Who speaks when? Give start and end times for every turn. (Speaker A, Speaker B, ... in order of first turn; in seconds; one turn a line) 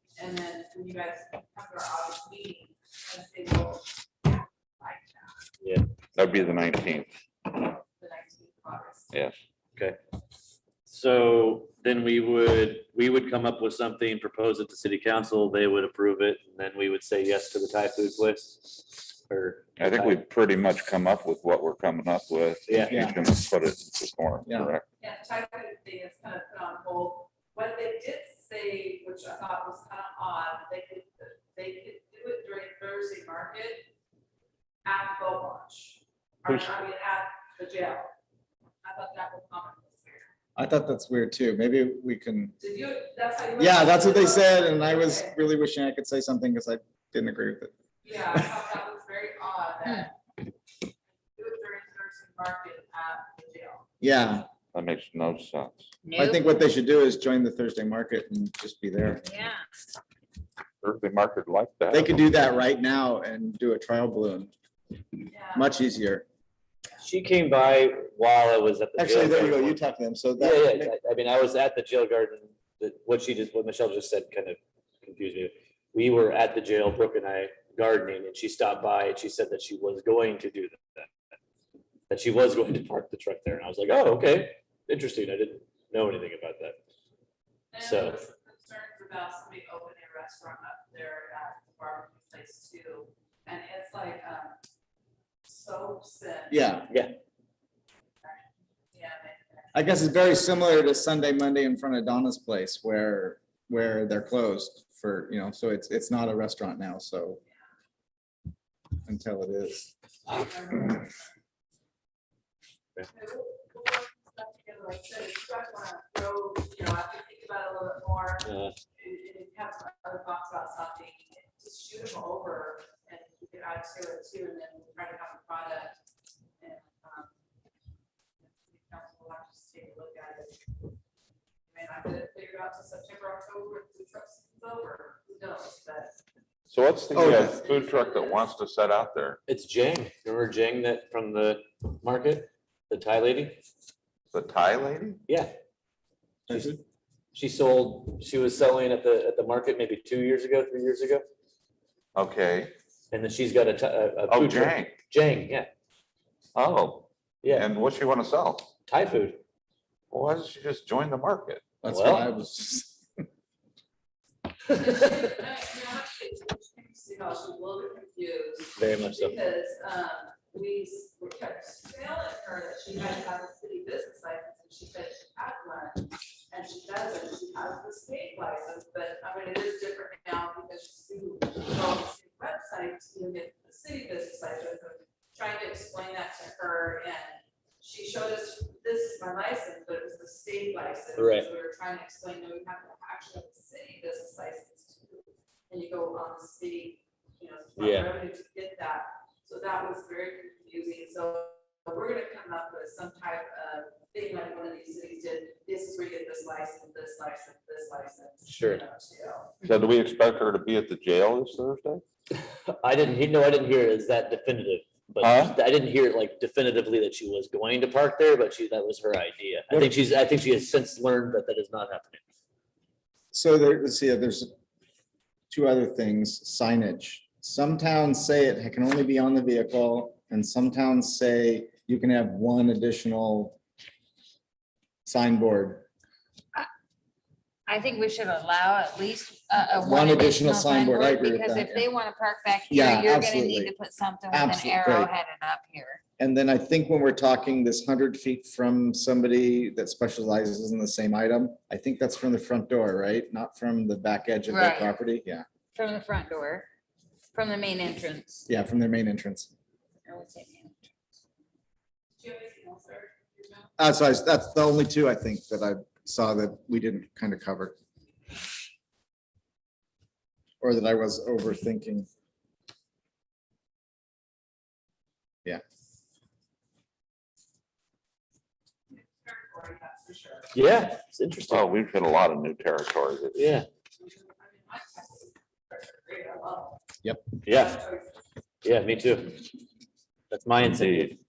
Speaker A: 0.2-5.5
Speaker B: 6.2-7.1
Speaker A: 6.2-6.6
Speaker A: 7.5-9.1
Speaker C: 10.9-20.2
Speaker B: 19.8-24.8
Speaker C: 22.7-23.1
Speaker D: 22.9-23.2
Speaker A: 25.0-33.9
Speaker A: 34.9-38.1
Speaker A: 38.8-40.3
Speaker D: 40.6-42.6
Speaker A: 42.6-45.4
Speaker D: 43.6-47.7
Speaker A: 48.0-50.2
Speaker A: 51.4-53.9
Speaker D: 54.0-54.5
Speaker B: 54.7-55.9
Speaker E: 56.0-56.4
Speaker D: 56.2-59.2
Speaker E: 59.2-59.6
Speaker B: 60.8-62.2
Speaker D: 61.9-64.5
Speaker A: 65.3-65.7
Speaker D: 65.5-66.3
Speaker C: 67.0-69.8
Speaker D: 69.0-70.9
Speaker C: 70.4-81.1
Speaker C: 82.1-86.8
Speaker A: 87.7-94.6
Speaker C: 87.8-88.2
Speaker A: 95.5-96.9
Speaker D: 96.5-96.9
Speaker A: 98.2-100.8
Speaker D: 99.7-107.4
Speaker D: 109.0-109.9
Speaker A: 110.3-111.0
Speaker A: 113.1-126.0
Speaker C: 118.4-118.7
Speaker A: 126.6-127.3
Speaker A: 128.5-130.6
Speaker A: 131.7-136.1
Speaker B: 136.7-139.4
Speaker D: 137.1-137.6
Speaker A: 137.2-138.4
Speaker C: 139.5-143.6
Speaker B: 144.3-145.2
Speaker C: 145.3-145.5
Speaker D: 146.5-146.8
Speaker C: 147.3-151.2
Speaker B: 152.2-152.7
Speaker C: 153.1-155.7
Speaker B: 154.3-154.9
Speaker B: 156.6-158.7
Speaker C: 157.4-157.7
Speaker C: 158.9-159.4
Speaker B: 160.1-161.7
Speaker D: 161.8-163.0
Speaker C: 161.9-162.3
Speaker A: 164.7-209.5
Speaker C: 168.8-169.4
Speaker C: 191.2-191.5
Speaker C: 197.8-198.1
Speaker C: 208.5-208.8
Speaker B: 209.6-212.0
Speaker C: 212.3-222.2
Speaker B: 215.2-215.6
Speaker D: 223.3-224.5
Speaker D: 225.5-233.6
Speaker D: 235.1-235.9
Speaker E: 237.7-246.0
Speaker D: 239.8-241.9
Speaker D: 242.7-243.7
Speaker D: 244.3-245.1
Speaker D: 246.2-255.4
Speaker E: 254.5-254.9
Speaker E: 255.8-256.7
Speaker E: 257.3-258.4
Speaker D: 258.5-259.5
Speaker E: 260.1-260.9
Speaker A: 262.2-263.7
Speaker D: 263.8-267.8
Speaker D: 270.6-272.1
Speaker A: 278.9-280.5
Speaker C: 280.5-281.7
Speaker B: 281.5-283.6
Speaker C: 283.3-283.7
Speaker A: 284.0-286.8
Speaker D: 287.0-287.3
Speaker C: 287.4-287.8
Speaker A: 287.5-288.2
Speaker C: 288.6-289.4
Speaker C: 290.3-291.2
Speaker B: 290.7-291.1